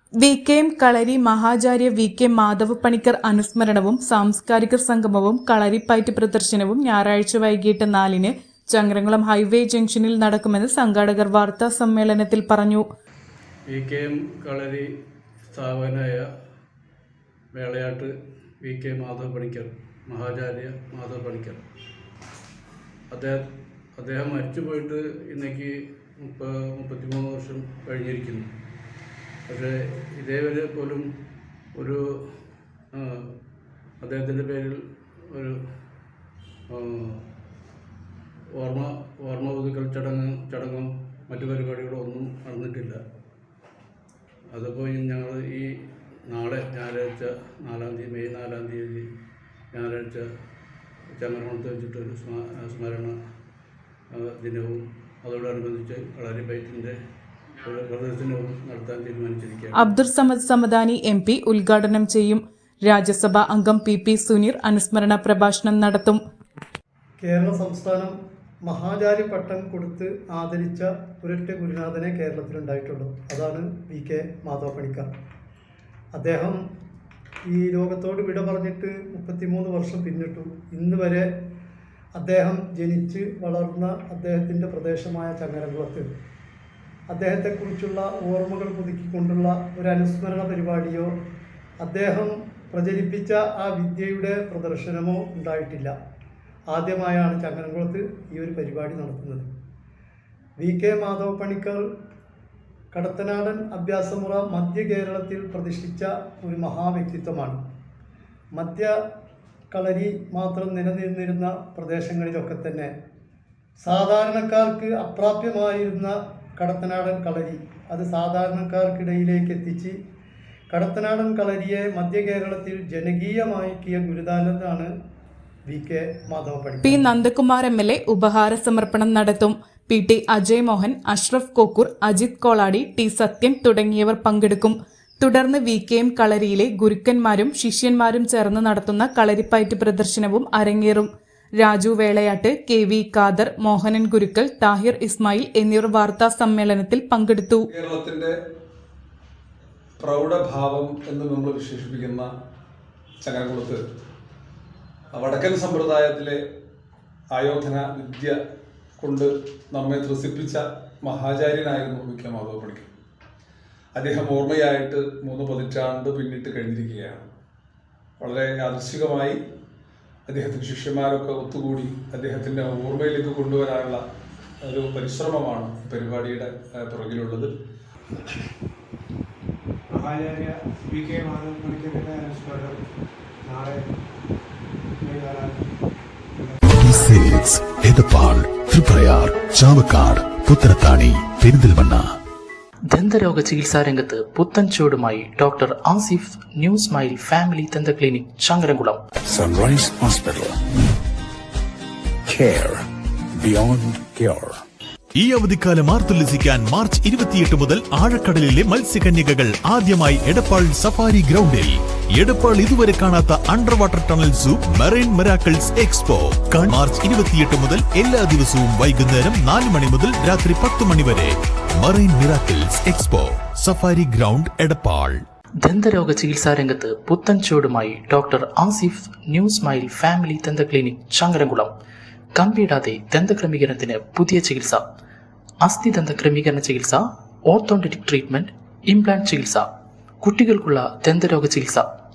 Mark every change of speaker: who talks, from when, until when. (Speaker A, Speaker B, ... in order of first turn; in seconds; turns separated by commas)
Speaker A: 0.2-12.8, Speaker B: 13.7-14.9, Speaker B: 15.5-16.3, Speaker B: 17.5-21.6, Speaker B: 23.1-28.5, Speaker B: 29.5-31.1, Speaker B: 31.7-32.0, Speaker B: 32.9-33.3, Speaker B: 34.0-35.6, Speaker B: 36.7-37.2, Speaker B: 38.5-43.0, Speaker B: 44.5-45.7, Speaker B: 46.3-49.1, Speaker B: 49.7-50.3, Speaker B: 51.2-53.1, Speaker B: 54.1-57.0, Speaker B: 57.6-60.0, Speaker A: 59.8-66.2, Speaker C: 67.2-68.1, Speaker C: 68.6-75.1, Speaker C: 76.1-76.6, Speaker C: 77.5-81.3, Speaker C: 82.2-86.1, Speaker C: 87.1-91.1, Speaker C: 91.8-95.9, Speaker C: 96.7-99.5, Speaker C: 100.6-101.8, Speaker C: 102.9-107.6, Speaker C: 108.5-108.9, Speaker C: 109.7-112.9, Speaker C: 113.8-120.0, Speaker C: 120.7-124.9, Speaker C: 125.7-127.0, Speaker A: 126.8-147.7, Speaker D: 147.7-148.3, Speaker D: 150.0-152.3, Speaker D: 153.2-153.8, Speaker D: 155.1-156.4, Speaker D: 157.3-158.4, Speaker D: 159.0-162.9, Speaker D: 163.9-167.2, Speaker D: 168.2-169.4, Speaker D: 170.3-174.0, Speaker D: 174.7-177.5, Speaker E: 179.9-182.4, Speaker F: 186.6-192.1, Speaker G: 192.9-199.0, Speaker H: 199.3-200.6, Speaker H: 202.3-204.6, Speaker F: 205.2-225.2, Speaker G: 225.6-231.7, Speaker G: 232.3-234.9, Speaker G: 235.6-241.9